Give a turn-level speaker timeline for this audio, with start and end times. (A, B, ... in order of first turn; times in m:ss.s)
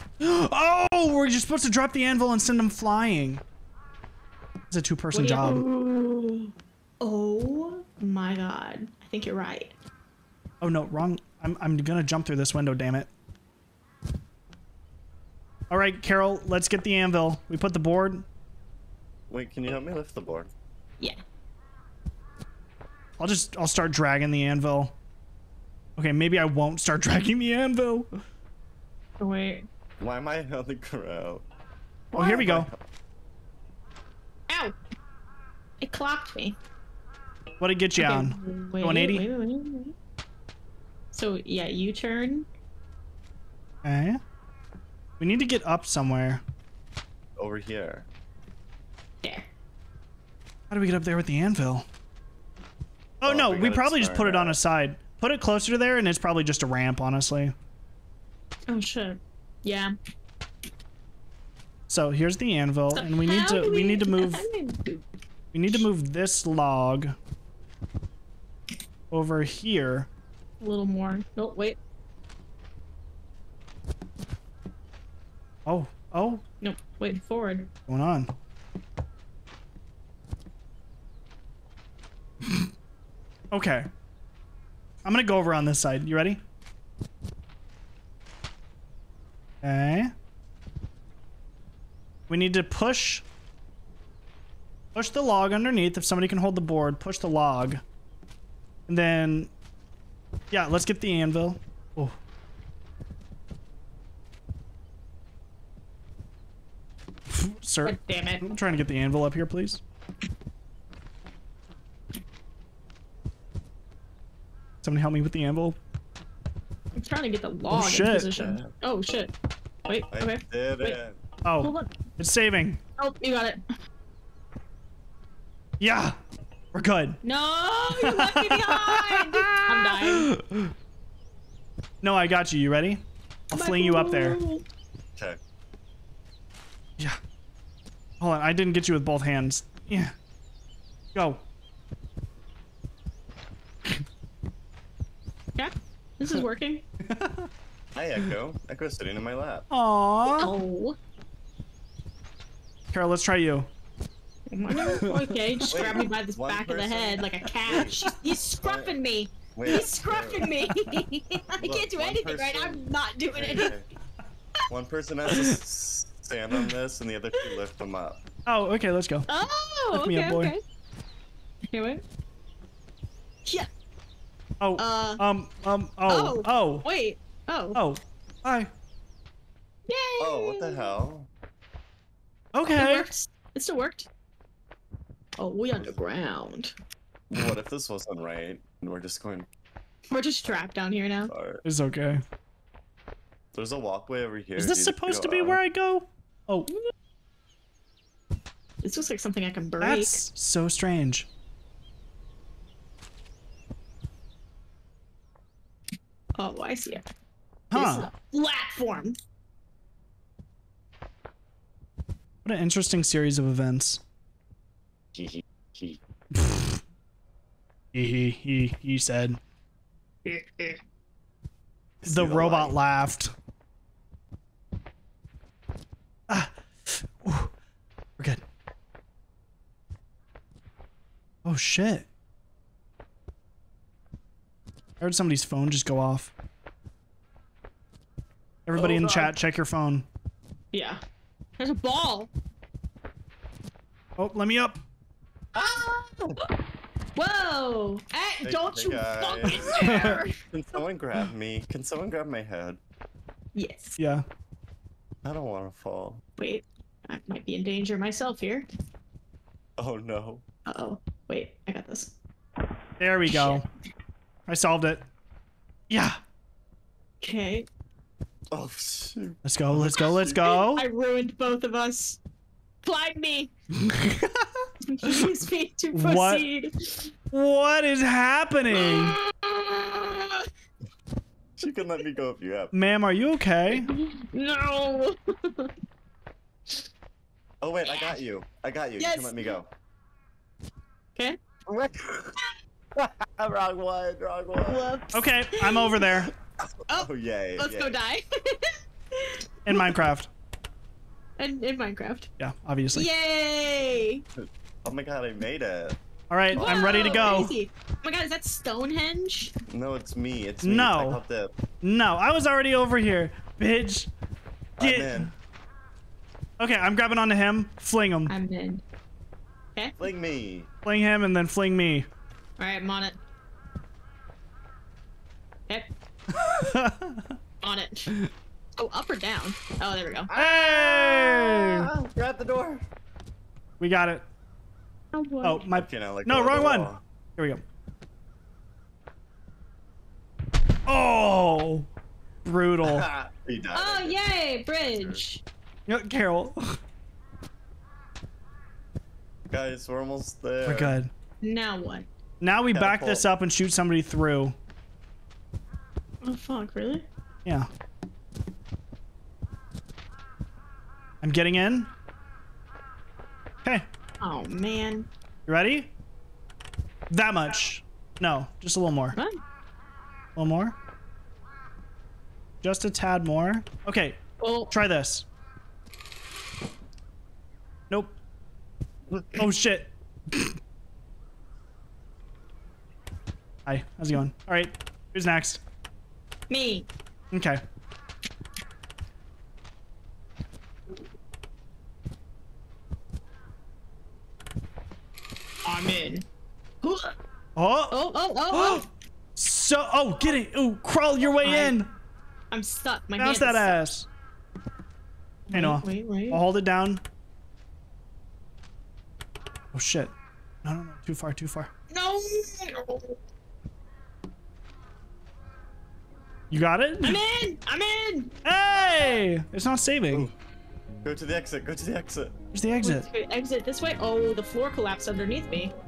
0:00.2-0:03.4 A
0:04.7-0:05.7 A
0:05.1-0:09.7 B
0:10.6-0:13.1 A
0:15.7-0:18.2 A
0:19.3-0:20.5 C
0:23.2-0:24.9 A
0:26.0-0:28.1 A
0:29.2-0:29.7 B
0:30.0-0:31.4 C
0:32.1-0:32.7 A
0:32.1-0:32.4 B
0:32.2-0:32.8 C
0:34.5-0:34.8 B
0:35.8-0:36.6 B
0:37.6-0:39.2 A
0:38.0-0:39.9 B
0:41.1-0:42.4 B
0:43.8-0:44.2 A
0:45.2-0:46.4 A
0:47.4-0:48.1 C
0:49.2-0:49.5 B
0:50.7-0:51.8 A
0:53.2-0:57.5 A
0:53.2-0:54.6 C
0:58.7-0:59.9 B
1:01.9-1:04.5 A
1:02.9-1:05.0 B
1:05.5-1:07.1 A
1:09.1-1:10.1 A
1:10.6-1:11.8 B
1:15.6-1:16.4 A
1:16.6-1:17.7 B
1:17.9-1:18.3 A
1:23.5-1:23.9 A
1:25.0-1:26.4 A
1:29.6-1:30.1 A
1:32.3-1:33.2 A
1:34.9-1:37.8 A
1:38.9-1:39.5 A
1:40.5-1:42.2 A
1:47.3-1:49.8 A
1:47.8-1:48.4 B
1:54.8-1:55.8 A
1:56.9-1:59.3 B
1:57.7-1:58.3 A
1:58.3-1:58.7 C
1:59.8-2:01.0 B
2:00.1-2:01.2 C
2:01.4-2:02.8 A
2:01.6-2:01.9 B
2:03.0-2:03.6 B
2:05.8-2:06.2 A
2:06.7-2:07.2 A
2:07.2-2:10.3 B
2:08.0-2:10.7 A
2:12.0-2:14.4 A
2:13.5-2:14.6 B
2:18.2-2:20.1 A
2:21.1-2:21.4 A
2:25.6-2:26.8 B
2:27.0-2:27.5 A
2:27.9-2:29.7 C
2:29.7-2:30.5 A
2:30.3-2:31.0 B
2:32.9-2:33.7 A
2:34.5-2:43.7 B
2:34.8-2:36.0 A
2:35.7-2:38.0 C
2:38.6-2:39.0 C
2:39.5-2:40.5 C
2:41.6-2:43.8 C
2:44.7-2:48.2 C
2:48.4-2:49.2 A
2:49.3-2:50.6 B
2:49.9-2:50.5 A
2:51.7-2:52.0 B
2:54.6-2:56.8 A
2:54.8-2:55.2 B
2:56.1-2:57.8 B
2:57.7-2:58.7 A
2:59.9-3:00.9 B
3:00.2-3:01.3 C
3:02.5-3:03.1 A
3:02.8-3:04.1 B
3:05.4-3:06.7 B
3:07.3-3:09.5 C
3:10.1-3:11.3 B
3:11.3-3:11.6 C
3:11.6-3:12.2 A
3:13.5-3:15.6 C
3:14.6-3:16.7 A
3:18.8-3:20.2 B
3:19.8-3:21.3 A
3:26.4-3:27.0 B
3:27.7-3:28.1 A
3:27.7-3:29.2 B
3:32.4-3:34.0 A
3:35.2-3:36.0 C
3:36.3-3:36.8 A
3:37.9-3:39.4 A
3:40.2-3:40.8 B
3:42.0-3:42.8 C
3:42.0-3:43.3 A
3:46.3-3:47.5 A
3:51.4-3:52.1 A
3:55.0-3:56.3 A
3:58.6-4:00.1 A
3:58.8-3:59.3 B
4:00.7-4:01.0 B
4:01.6-4:02.3 B
4:04.2-4:04.8 A
4:05.5-4:06.3 C
4:05.6-4:06.4 B
4:07.2-4:10.3 B
4:08.4-4:12.8 C
4:09.8-4:10.2 A
4:13.5-4:14.0 B
4:14.0-4:14.2 A
4:15.2-4:16.2 C
4:16.4-4:18.6 B
4:19.8-4:20.4 C
4:20.6-4:22.1 B
4:23.0-4:23.6 A
4:23.3-4:23.6 B
4:24.5-4:25.0 A
4:25.9-4:26.2 A
4:27.2-4:27.7 B
4:28.5-4:30.3 C
4:29.4-4:30.8 A
4:30.3-4:32.2 B
4:32.8-4:33.5 B
4:33.8-4:34.7 A
4:34.8-4:37.1 B
4:35.9-4:36.4 A
4:37.3-4:39.2 A
4:38.7-4:40.5 B
4:41.6-4:42.7 C
4:42.7-4:43.9 A
4:43.7-4:45.7 B
4:47.6-4:49.7 C
4:47.8-4:48.1 B
4:49.0-4:49.6 B
4:51.6-4:52.4 C
4:53.0-4:54.8 C
4:54.6-4:56.1 B
4:55.1-4:56.3 A
4:56.6-4:58.0 C
4:56.9-4:59.9 B
4:59.6-5:00.3 A
5:01.4-5:02.3 B
5:02.4-5:03.1 A
5:02.9-5:04.2 B
5:04.4-5:06.0 C
5:06.3-5:07.5 A
5:06.5-5:07.5 C
5:06.5-5:09.5 B
5:09.7-5:11.5 C
5:10.6-5:11.2 A
5:11.8-5:14.1 A
5:14.8-5:15.3 C
5:14.8-5:15.3 A
5:16.6-5:18.3 A
5:18.3-5:18.8 B
5:20.0-5:20.7 C
5:20.8-5:22.1 A
5:22.6-5:23.2 B
5:26.3-5:27.3 A
5:27.6-5:28.1 B
5:28.8-5:30.3 B
5:30.3-5:32.8 C
5:30.3-5:31.9 A
5:33.8-5:34.2 A
5:35.1-5:35.6 B
5:35.4-5:37.6 A
5:35.7-5:37.0 C
5:40.9-5:41.9 A
5:42.4-5:43.1 A
5:42.8-5:44.2 C
5:43.7-5:45.4 B
5:44.7-5:45.2 C
5:45.9-5:46.8 A
5:49.5-5:50.9 C
5:50.6-5:51.1 A
5:51.4-5:52.1 B
5:52.4-5:54.5 A
5:52.7-5:53.2 C
5:56.2-5:57.0 B
6:01.2-6:01.9 A
6:04.2-6:05.1 B
6:05.5-6:05.9 A
6:07.1-6:09.2 A
6:10.4-6:10.8 A
6:12.6-6:15.3 A
6:14.4-6:14.7 B
6:17.9-6:18.2 A
6:19.4-6:20.5 A
6:23.6-6:25.6 A
6:26.5-6:26.9 B
6:27.3-6:27.6 A
6:35.6-6:36.2 B
6:36.8-6:37.1 B
6:37.6-6:38.0 A
6:37.9-6:38.8 B
6:38.5-6:38.8 A
6:39.4-6:41.9 A
6:41.4-6:41.7 B
6:42.5-6:43.7 B
6:43.2-6:44.1 A
6:45.5-6:46.4 B
6:45.5-6:47.0 A
6:49.7-6:51.7 A
6:51.9-6:53.2 B
6:56.5-6:57.2 A
6:57.0-6:58.3 B
6:58.4-7:00.3 A
7:00.1-7:00.4 C
7:01.0-7:02.3 C
7:02.5-7:03.1 A
7:02.8-7:05.7 B